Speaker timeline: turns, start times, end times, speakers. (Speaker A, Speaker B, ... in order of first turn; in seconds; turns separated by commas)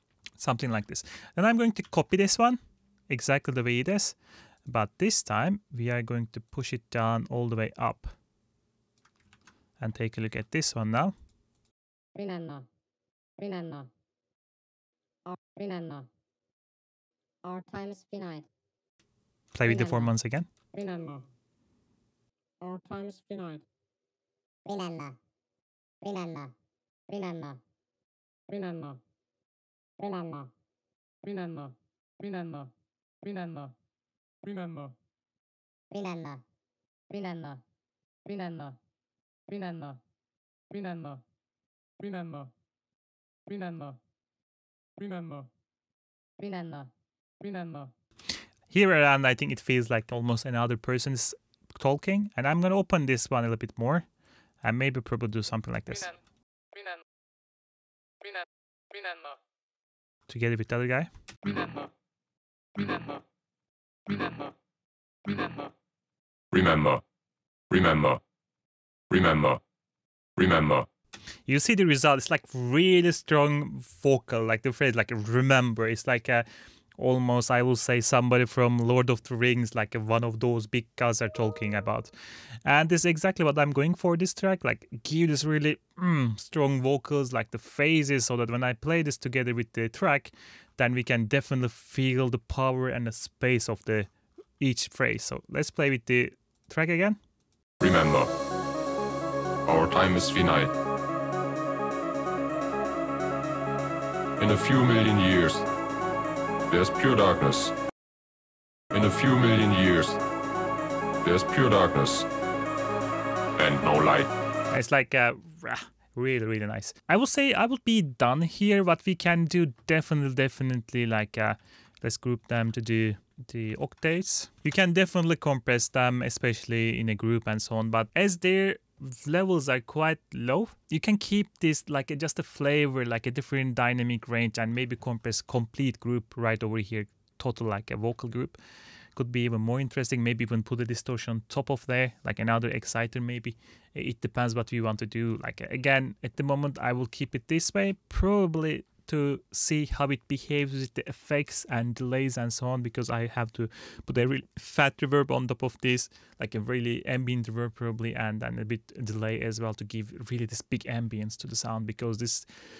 Speaker A: 0.4-8.1, Speaker A: 9.8-11.1, Speaker B: 12.1-12.7, Speaker B: 13.4-13.9, Speaker B: 15.2-16.1, Speaker B: 17.4-18.4, Speaker A: 19.5-20.5, Speaker B: 19.6-20.1, Speaker B: 20.7-21.2, Speaker B: 22.6-23.6, Speaker B: 24.6-25.2, Speaker B: 26.0-26.5, Speaker B: 27.1-27.6, Speaker B: 28.5-29.0, Speaker B: 30.0-30.5, Speaker B: 31.2-32.7, Speaker B: 33.2-33.7, Speaker B: 34.4-34.9, Speaker B: 35.9-36.4, Speaker B: 37.1-37.6, Speaker B: 38.2-38.8, Speaker B: 39.5-40.0, Speaker B: 40.7-41.2, Speaker B: 42.0-42.5, Speaker B: 43.5-44.0, Speaker B: 45.0-45.5, Speaker B: 46.4-47.9, Speaker A: 48.7-54.1, Speaker A: 54.6-56.1, Speaker B: 58.9-59.3, Speaker A: 60.3-61.1, Speaker B: 61.5-61.9, Speaker B: 62.8-63.2, Speaker B: 64.1-64.5, Speaker B: 65.2-65.7, Speaker C: 66.5-67.0, Speaker C: 67.7-68.2, Speaker C: 69.1-69.6, Speaker C: 70.3-70.9, Speaker A: 71.5-76.5, Speaker A: 77.0-82.1, Speaker A: 82.6-97.2, Speaker C: 97.8-98.3, Speaker C: 99.7-100.7, Speaker C: 104.4-105.7, Speaker C: 106.7-107.7, Speaker C: 108.9-110.2, Speaker C: 111.2-112.3, Speaker C: 113.6-114.3, Speaker A: 114.7-138.6, Speaker A: 139.2-162.5